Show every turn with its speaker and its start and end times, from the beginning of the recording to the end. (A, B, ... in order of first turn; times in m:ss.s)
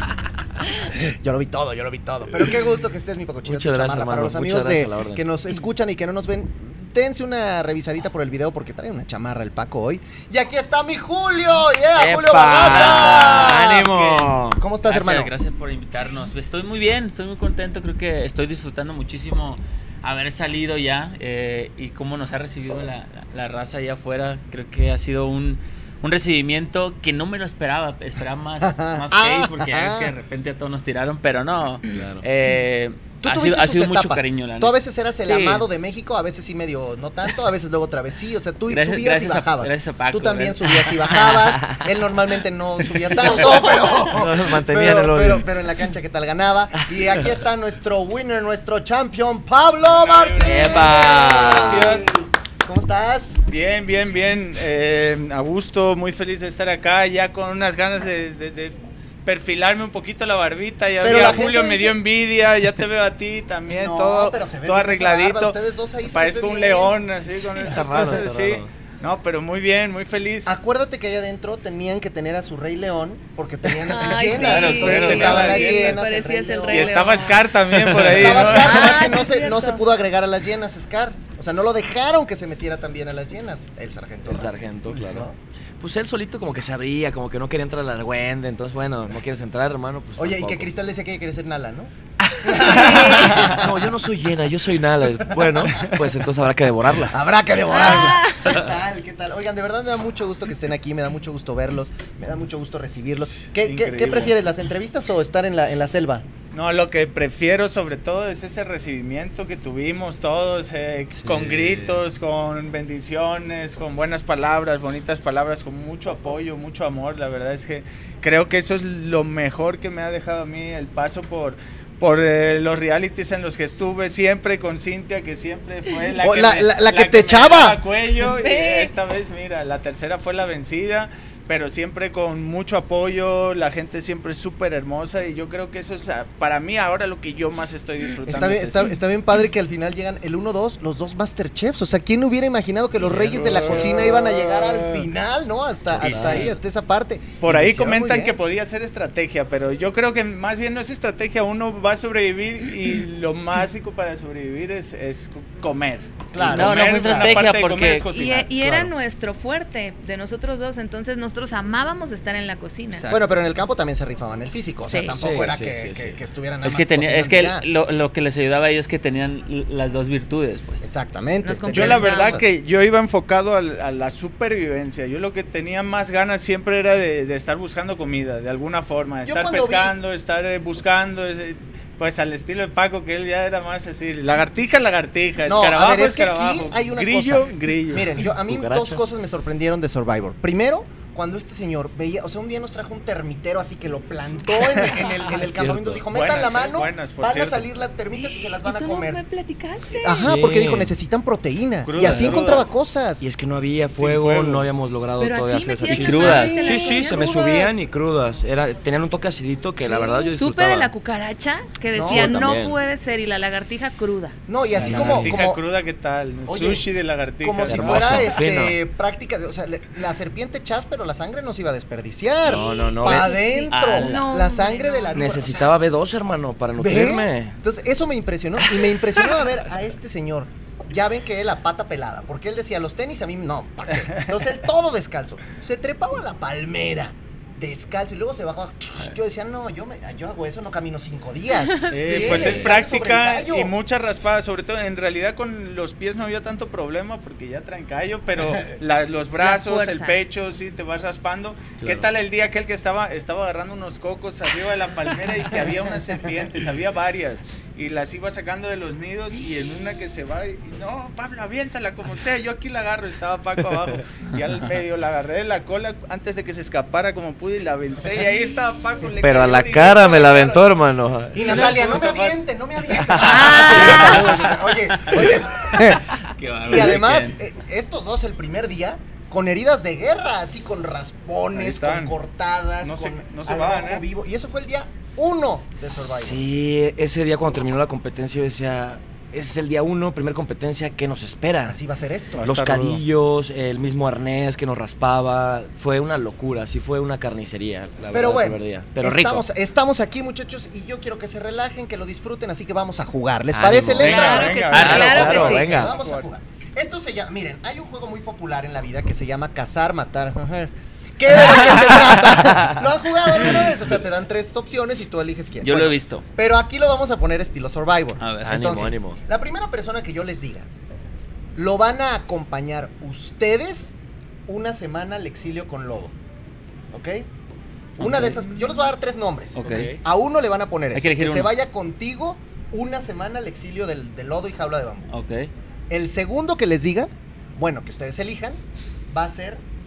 0:00.6-0:15.3 A
0:03.4-0:05.2 B
0:11.9-0:14.6 B
0:12.6-0:14.2 C
0:14.9-0:35.6 C
0:28.6-0:30.1 A
0:31.9-0:32.2 B
0:33.2-0:53.4 A
0:38.7-0:41.1 C
0:41.2-0:41.8 B
0:43.9-0:45.5 B
0:49.8-0:52.1 D
0:50.4-0:52.1 B
0:53.5-1:05.6 D
1:01.0-1:02.0 A
1:01.1-1:01.4 B
1:03.8-1:07.0 A
1:06.1-1:10.5 D
1:07.5-1:08.7 B
1:10.4-1:17.1 A
1:13.8-1:17.5 E
1:14.3-1:15.6 C
1:14.5-1:16.0 D
1:16.7-1:18.9 D
1:17.8-1:18.2 C
1:18.0-1:25.4 A
1:18.5-1:19.8 E
1:24.3-1:25.3 B
1:25.8-1:30.7 B
1:30.2-1:33.9 A
1:32.4-1:33.4 E
1:32.5-1:37.2 B
1:35.2-1:35.8 A
1:37.1-1:46.2 A
1:37.7-1:38.4 E
1:43.4-1:44.3 D
1:46.5-2:18.9 D
1:51.2-1:52.0 B
2:06.2-2:07.8 A
2:08.2-2:08.9 E
2:18.2-2:28.4 A
2:23.1-2:25.1 D
2:26.0-2:26.5 B
2:26.0-2:26.6 C
2:27.4-2:38.5 D
2:36.3-2:37.5 A
2:36.4-2:38.1 C
2:38.1-2:43.1 E
2:38.6-2:38.9 A
2:42.9-2:43.2 C
2:43.1-2:47.7 A
2:44.8-2:45.2 E
2:45.1-2:46.2 B
2:46.6-2:50.9 C
2:50.8-2:52.4 A
2:51.4-2:52.4 E
2:51.7-3:08.1 D
2:59.2-2:59.9 A
3:05.4-3:19.2 A
3:08.2-3:09.0 B
3:15.3-3:16.0 B
3:16.1-3:17.7 D
3:18.1-3:20.3 E
3:20.0-3:23.2 A
3:20.0-3:20.9 B
3:21.8-3:22.7 D
3:23.2-3:30.9 B
3:23.9-3:24.7 D
3:25.2-3:27.5 E
3:25.8-3:26.7 C
3:26.3-3:27.8 A
3:29.8-3:34.4 E
3:31.9-3:32.6 A
3:32.0-3:32.8 B
3:34.5-3:35.6 A
3:34.7-3:35.4 B
3:34.7-3:38.4 D
3:36.4-3:36.9 A
3:37.4-3:45.7 A
3:37.7-3:38.8 B
3:42.4-3:43.4 B
3:43.0-3:45.5 E
3:43.7-3:44.2 C
3:45.1-3:47.6 B
3:46.7-4:03.7 A
4:01.9-4:30.8 D
4:02.1-4:02.8 B
4:09.4-4:10.2 E
4:11.8-4:12.1 B
4:29.2-4:31.8 B
4:31.3-4:32.4 D
4:31.3-4:46.4 A
4:33.0-4:33.8 B
4:33.2-4:34.2 E
4:34.9-4:37.3 C
4:41.5-4:42.2 D
4:42.8-4:44.0 D
4:45.9-4:51.8 B
4:51.6-4:52.4 A
4:52.4-4:53.0 D
4:52.4-4:59.4 B
4:58.1-5:20.7 A
5:03.5-5:05.9 B
5:04.0-5:05.3 C
5:04.0-5:05.9 E
5:04.1-5:06.3 D
5:15.6-5:16.2 C
5:18.2-5:18.8 C
5:18.4-5:19.2 B
5:21.6-5:24.0 A
5:24.5-5:26.1 A
5:26.9-5:27.3 A
5:28.0-5:35.1 A
5:28.0-5:28.3 C
5:29.6-5:29.9 C
5:29.6-5:30.0 B
5:30.9-5:31.5 C
5:35.1-5:35.5 C
5:35.9-5:38.6 A
5:39.1-5:39.6 A